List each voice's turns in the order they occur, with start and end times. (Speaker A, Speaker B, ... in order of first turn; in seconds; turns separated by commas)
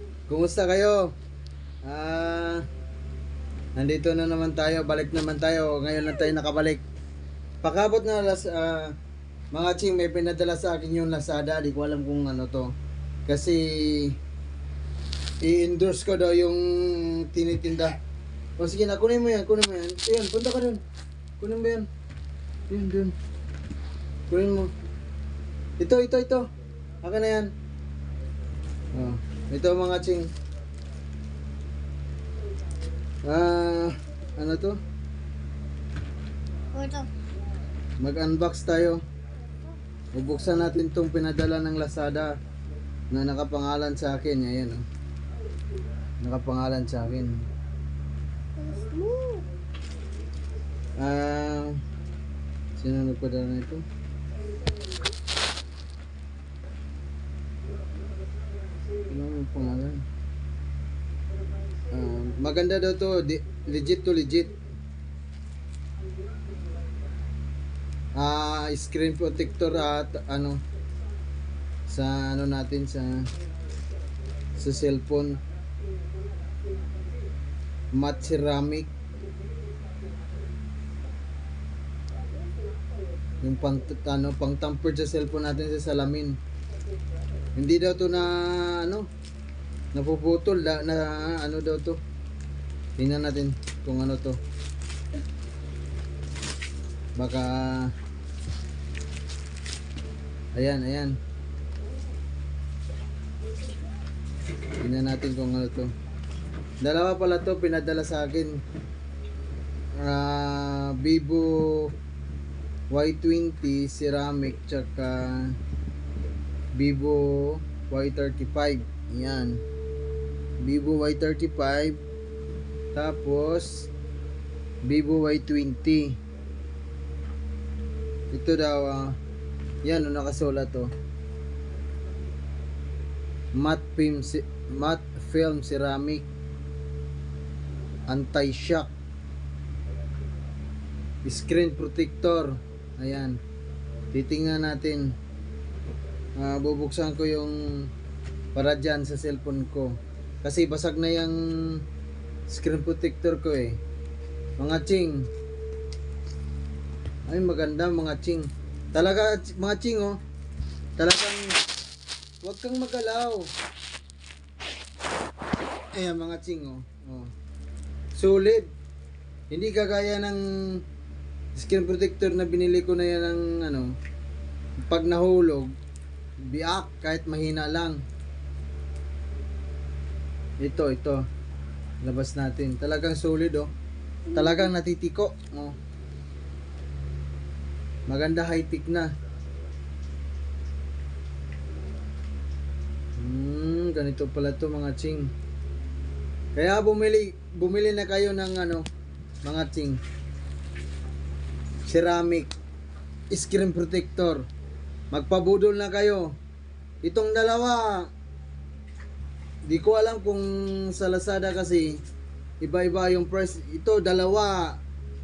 Speaker A: 0.3-1.1, Speaker A: 1.8-2.6, Speaker A: 3.8-6.8, Speaker A: 7.6-8.9, Speaker A: 9.5-12.7, Speaker A: 13.3-14.2, Speaker A: 15.4-18.0, Speaker A: 18.6-20.8, Speaker A: 21.4-21.9, Speaker A: 22.7-23.1, Speaker A: 24.3-24.7, Speaker A: 25.8-26.4, Speaker A: 27.0-27.5, Speaker A: 28.9-30.3, Speaker A: 33.2-34.8, Speaker B: 36.7-37.1, Speaker A: 38.0-39.0, Speaker B: 39.4-39.8, Speaker A: 40.1-42.3, Speaker A: 43.1-44.8, Speaker A: 46.2-47.4, Speaker B: 48.6-49.5, Speaker A: 51.0-51.8, Speaker A: 52.8-53.8, Speaker A: 59.1-60.0, Speaker A: 61.9-64.5, Speaker A: 68.2-70.6, Speaker A: 71.9-73.3, Speaker A: 74.6-75.4, Speaker A: 77.9-78.9, Speaker A: 83.4-86.4, Speaker A: 87.5-89.1, Speaker A: 89.9-92.0, Speaker A: 93.0-94.4, Speaker A: 97.2-97.9, Speaker A: 100.5-101.2, Speaker A: 104.8-105.9, Speaker A: 106.8-108.6, Speaker A: 110.0-111.9, Speaker A: 112.9-115.5, Speaker A: 116.8-119.6, Speaker A: 120.6-122.0, Speaker A: 122.9-123.9, Speaker A: 124.8-126.2, Speaker A: 128.3-129.2, Speaker A: 129.8-130.9, Speaker A: 133.5-136.2, Speaker A: 138.1-138.9, Speaker A: 141.2-143.4, Speaker A: 144.1-145.1, Speaker A: 146.4-147.9, Speaker A: 148.5-151.8, Speaker A: 152.5-153.8, Speaker A: 154.6-155.3, Speaker A: 157.3-160.2, Speaker A: 161.0-161.5, Speaker A: 162.4-163.5, Speaker A: 165.9-167.3, Speaker A: 168.2-168.7, Speaker A: 169.5-170.8, Speaker A: 171.5-173.9, Speaker A: 174.9-175.7, Speaker A: 176.5-178.0, Speaker A: 180.6-181.2, Speaker A: 182.0-183.7, Speaker B: 184.3-184.7, Speaker A: 184.3-185.8, Speaker A: 188.1-189.1, Speaker A: 193.2-195.3, Speaker A: 196.5-198.8, Speaker A: 199.4-200.0, Speaker A: 201.9-202.5, Speaker A: 203.3-204.4, Speaker A: 205.1-206.3, Speaker A: 207.0-208.1, Speaker A: 209.7-212.0, Speaker A: 212.6-214.8